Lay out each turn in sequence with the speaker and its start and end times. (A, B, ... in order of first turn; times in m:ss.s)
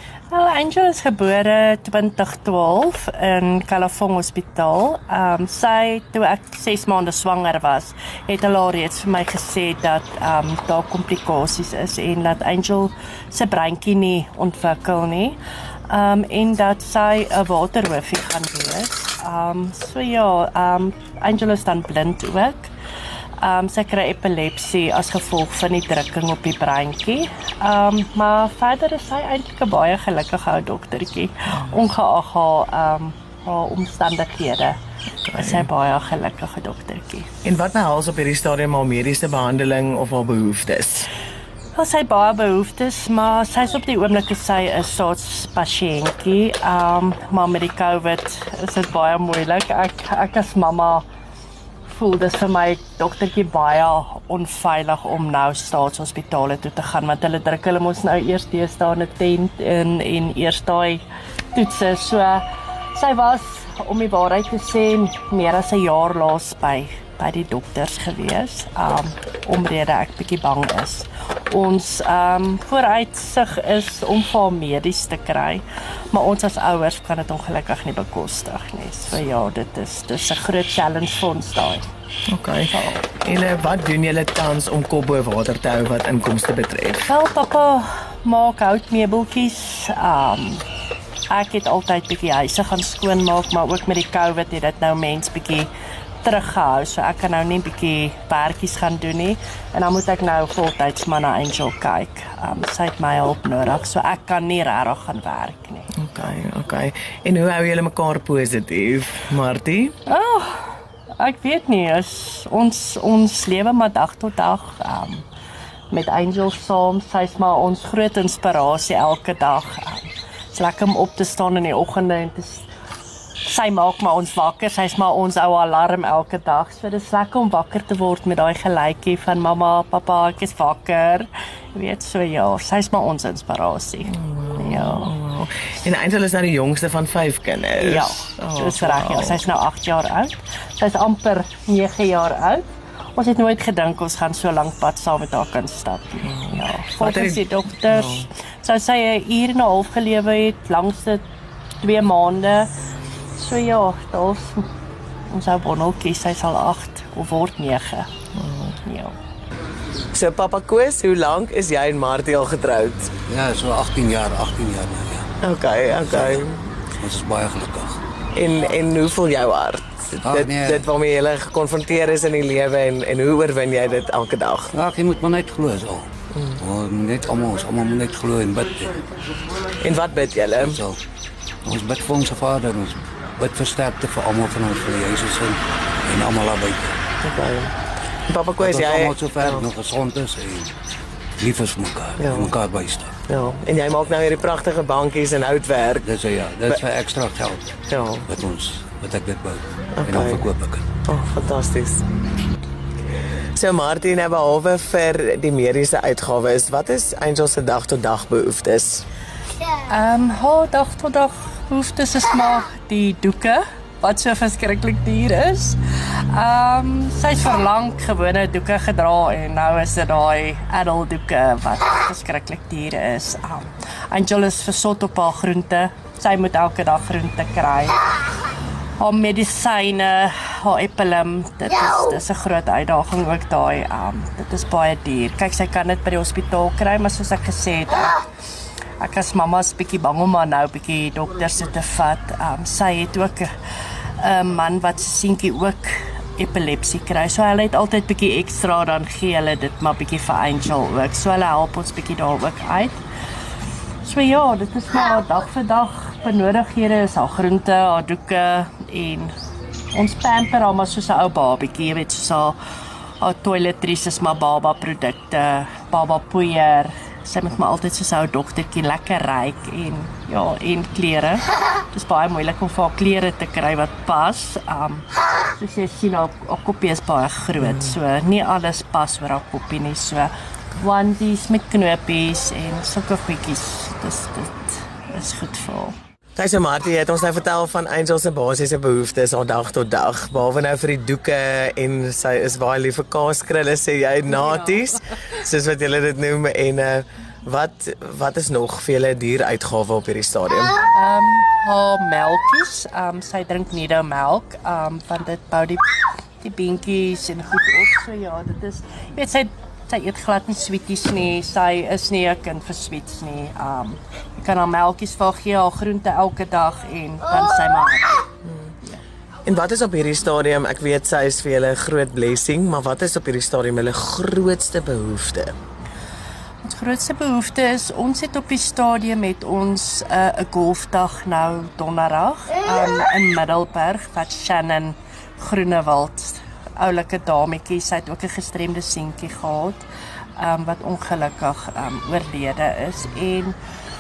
0:00.3-0:22.7 A
0:23.4-0:34.8 A
0:35.3-0:35.7 B
0:35.3-0:37.3 A
0:37.4-0:41.1 B
0:41.7-0:51.0 A
0:51.9-1:21.8 A
1:22.3-1:27.1 B
1:22.7-1:23.1 A
1:27.1-1:30.6 A
1:31.3-1:35.7 A
1:36.2-1:45.9 A
1:46.0-1:49.9 B
1:50.1-1:55.3 A
1:55.9-2:02.7 A
2:03.4-2:15.1 A
2:14.1-2:19.4 B
2:17.8-2:31.2 A
2:26.2-2:28.3 B
2:31.8-2:32.7 A
2:33.3-2:34.7 A
2:35.3-2:38.1 A
2:38.3-2:38.8 B
2:38.8-2:39.2 A
2:40.1-2:43.1 B
2:43.3-2:45.3 C
2:45.4-2:46.7 B
2:46.0-2:46.4 C
2:47.0-2:48.0 C
2:48.3-2:54.7 B
2:50.2-2:50.9 C
2:54.7-2:59.1 C
2:59.8-3:00.8 B
3:00.6-3:01.0 C
3:01.6-3:07.0 C
3:07.2-3:07.7 B
3:08.3-3:09.7 B
3:08.6-3:10.8 C
3:11.4-3:13.2 C
3:12.2-3:12.5 B
3:13.3-3:16.1 B
3:16.0-3:17.8 C
3:17.9-3:18.3 B
3:18.3-3:20.8 C
3:20.0-3:20.5 B
3:21.0-3:22.0 B
3:23.6-3:29.1 B
3:29.8-3:48.0 A
3:49.0-3:58.2 A
3:59.0-4:03.5 A
4:04.2-4:13.0 A
4:14.0-4:19.3 A
4:19.9-4:22.6 A
4:23.2-4:45.9 A
4:37.6-4:38.0 B
4:46.4-5:00.8 B
4:54.3-4:54.8 A
5:00.8-5:05.9 A
5:06.4-5:18.2 A
5:18.4-5:18.7 B
5:19.4-5:25.6 B
5:26.6-5:39.8 A
5:40.4-5:43.6 A